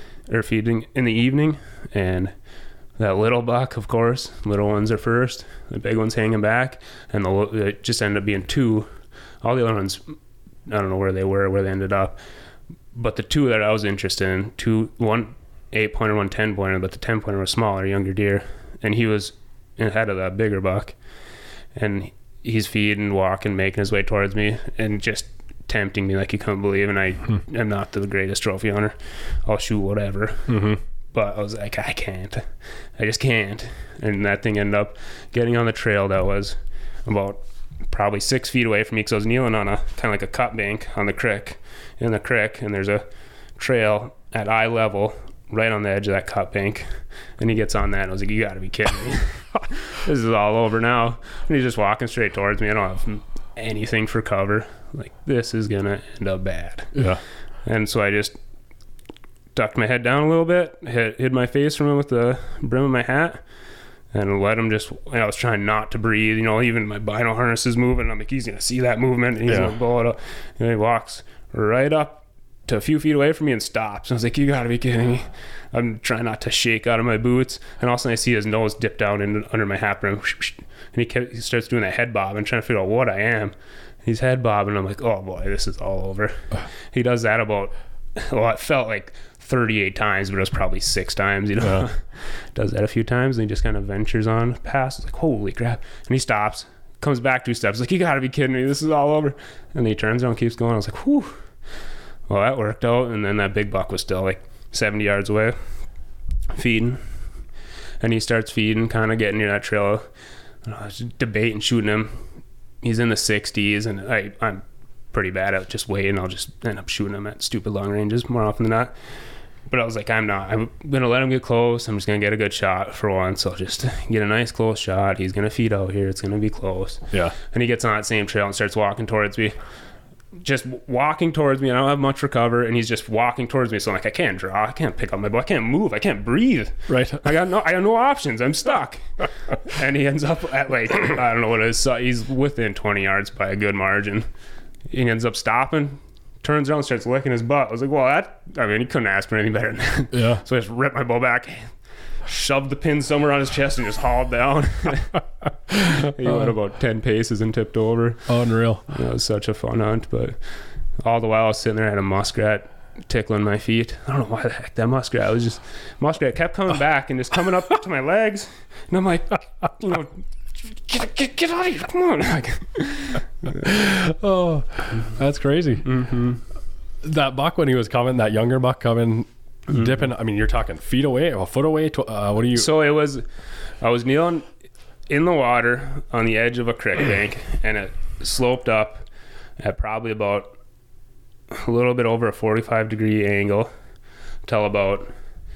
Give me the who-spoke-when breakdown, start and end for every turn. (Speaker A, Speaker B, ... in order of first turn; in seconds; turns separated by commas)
Speaker A: 0.3-2.3, Speaker A: 3.0-8.9, Speaker A: 9.4-10.2, Speaker A: 10.7-12.2, Speaker A: 12.9-21.0, Speaker A: 21.8-30.6, Speaker B: 30.5-30.8, Speaker A: 31.1-43.0, Speaker A: 43.6-57.0, Speaker B: 57.0-57.2, Speaker A: 57.6-58.3, Speaker A: 59.5-63.4, Speaker A: 64.1-101.4, Speaker B: 69.5-69.7, Speaker A: 102.3-105.6, Speaker A: 106.5-107.0, Speaker A: 108.0-110.1, Speaker A: 110.6-112.2, Speaker A: 112.8-118.9, Speaker A: 119.7-129.6, Speaker A: 130.4-144.3, Speaker B: 136.9-137.3, Speaker A: 144.9-151.7, Speaker B: 150.1-150.4, Speaker A: 152.3-155.2, Speaker A: 155.7-158.3, Speaker B: 158.3-158.8, Speaker A: 158.9-160.4, Speaker A: 161.1-173.6, Speaker B: 173.6-176.0, Speaker A: 175.8-176.4, Speaker B: 177.0-182.7, Speaker A: 182.5-183.3, Speaker A: 183.8-184.5, Speaker A: 185.1-189.1, Speaker A: 189.6-190.6, Speaker A: 191.5-193.7, Speaker A: 194.5-195.1